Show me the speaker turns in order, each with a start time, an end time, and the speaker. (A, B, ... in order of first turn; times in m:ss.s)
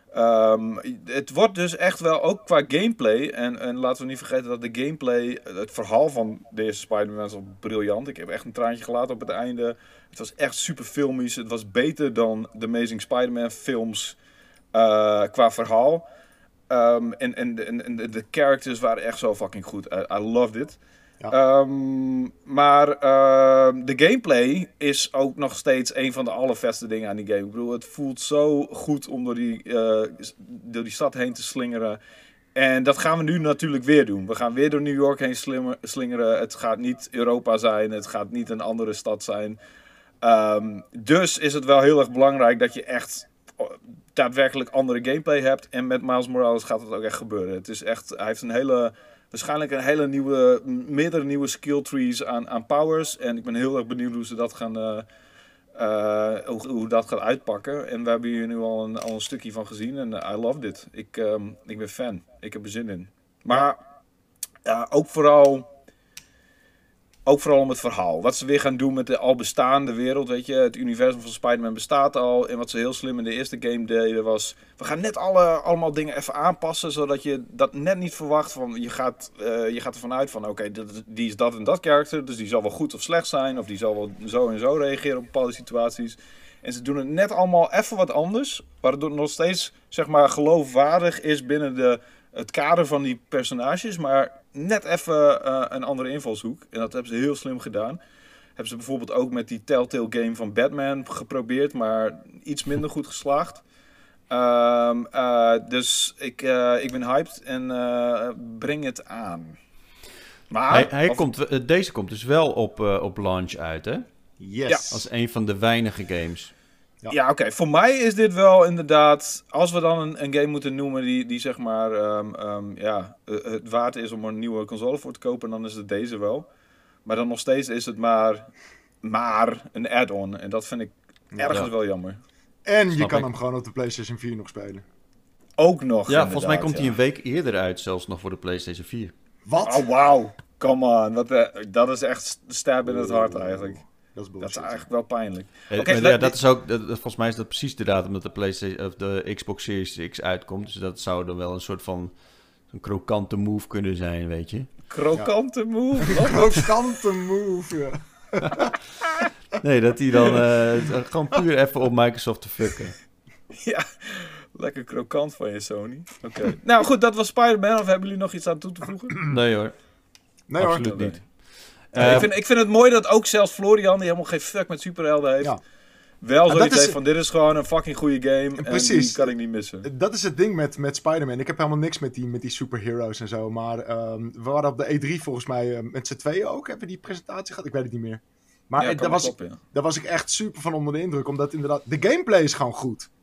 0:00.1-0:14.2 A
0:14.7-0:16.0 A
0:16.7-0:20.8 A
0:21.3-0:32.0 A
0:32.6-0:39.6 A
0:40.2-0:55.0 A
0:55.8-1:03.8 A
1:04.6-1:05.7 A
1:07.3-1:38.0 A
1:38.6-1:43.6 A
1:44.3-1:49.6 A
1:50.5-1:51.2 A
1:50.7-1:54.0 B
1:54.4-1:55.0 C
1:54.9-1:56.5 B
1:57.1-2:06.5 A
2:07.0-2:08.5 A
2:09.0-2:12.2 A
2:12.6-2:14.8 C
2:12.9-2:13.3 B
2:15.6-2:17.0 A
2:16.1-2:19.1 B
2:19.5-2:19.9 C
2:19.6-2:23.8 A
2:22.8-2:24.8 C
2:24.4-2:26.4 A
2:25.7-2:32.1 B
2:32.7-2:34.7 B
2:34.9-2:36.7 A
2:36.0-2:38.8 C
2:39.6-2:43.0 B
2:43.5-2:49.4 A
2:49.3-2:49.7 B
2:50.5-2:51.0 C
2:50.6-2:51.3 B
2:50.8-2:51.2 A
2:51.9-2:52.3 C
2:51.9-2:52.3 B
2:52.0-2:55.6 A
2:56.2-2:59.9 A
2:56.5-2:57.0 C
2:58.6-3:13.1 C
3:08.8-3:09.6 A